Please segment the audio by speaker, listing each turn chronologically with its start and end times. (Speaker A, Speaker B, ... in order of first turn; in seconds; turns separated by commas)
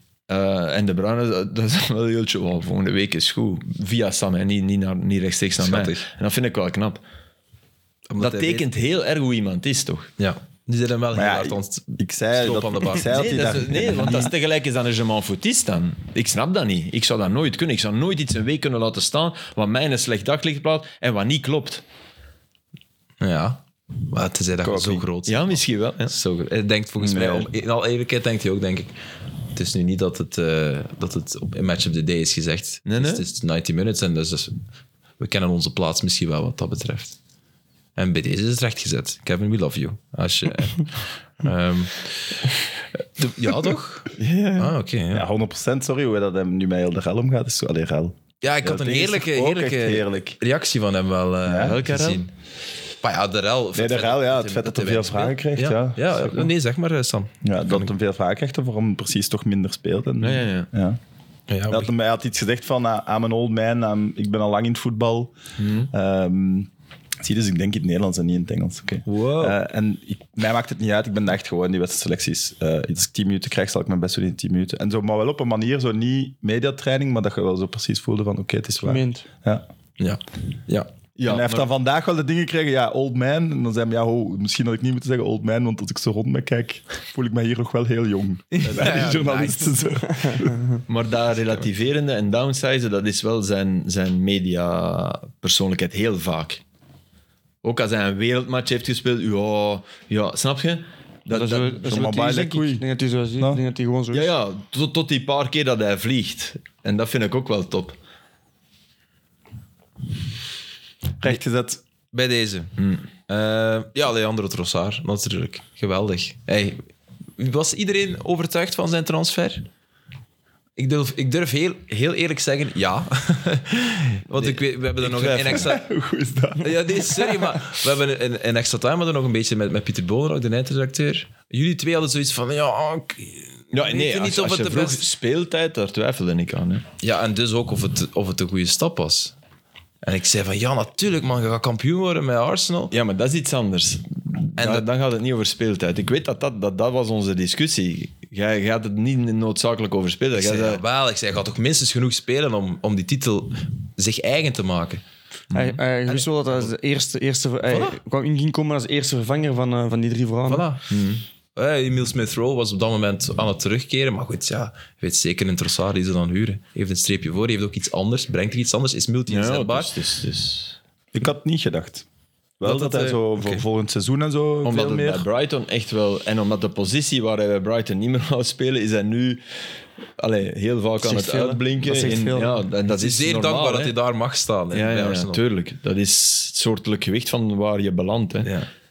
Speaker A: 0.3-7.0, Speaker B: 5.6-6.0, Speaker B: 8.1-8.7, Speaker A: 8.2-10.1, Speaker B: 10.2-13.3, Speaker C: 11.1-14.3, Speaker A: 13.0-21.8, Speaker B: 23.2-28.9, Speaker C: 24.6-25.1, Speaker A: 25.2-26.1, Speaker C: 27.0-27.5, Speaker B: 29.5-34.5, Speaker A: 32.9-33.2, Speaker B: 35.2-37.1, Speaker B: 38.0-45.2, Speaker A: 44.1-44.8, Speaker C: 45.1-50.4, Speaker B: 48.4-52.2, Speaker C: 51.4-51.8, Speaker A: 51.6-52.3, Speaker B: 53.0-57.9, Speaker C: 53.7-56.5, Speaker C: 57.4-61.0, Speaker A: 60.2-60.7, Speaker B: 61.5-61.9, Speaker C: 61.7-65.3, Speaker A: 65.6-65.9, Speaker C: 65.9-66.7, Speaker C: 67.2-79.6, Speaker B: 69.0-69.6, Speaker D: 78.8-79.2, Speaker B: 80.0-80.9, Speaker A: 81.2-81.7, Speaker C: 81.2-90.6, Speaker B: 88.6-89.8, Speaker A: 88.7-89.0, Speaker D: 90.0-90.6, Speaker A: 90.9-96.6, Speaker A: 97.6-102.1, Speaker D: 101.3-104.3, Speaker C: 101.8-102.8, Speaker A: 104.1-108.0, Speaker C: 111.2-111.8, Speaker B: 112.1-112.7, Speaker A: 112.8-113.0, Speaker B: 113.3-116.8, Speaker B: 117.4-119.7, Speaker B: 120.8-125.8, Speaker A: 124.3-125.7, Speaker C: 125.6-127.5, Speaker B: 126.5-135.0, Speaker A: 133.7-136.8, Speaker B: 137.0-139.3, Speaker B: 140.0-142.9, Speaker A: 142.9-150.8, Speaker B: 144.6-144.8, Speaker B: 150.3-155.0, Speaker A: 155.5-155.8, Speaker D: 155.5-160.6, Speaker B: 156.1-156.7, Speaker B: 157.7-158.0, Speaker B: 160.5-161.0, Speaker A: 160.9-161.2, Speaker B: 161.5-169.9, Speaker A: 169.3-170.8, Speaker C: 171.1-172.0, Speaker C: 172.6-175.2, Speaker B: 172.6-173.6, Speaker A: 174.6-179.4, Speaker A: 180.2-183.9, Speaker D: 181.0-182.6, Speaker B: 182.9-185.4, Speaker A: 184.7-188.5, Speaker B: 188.4-188.7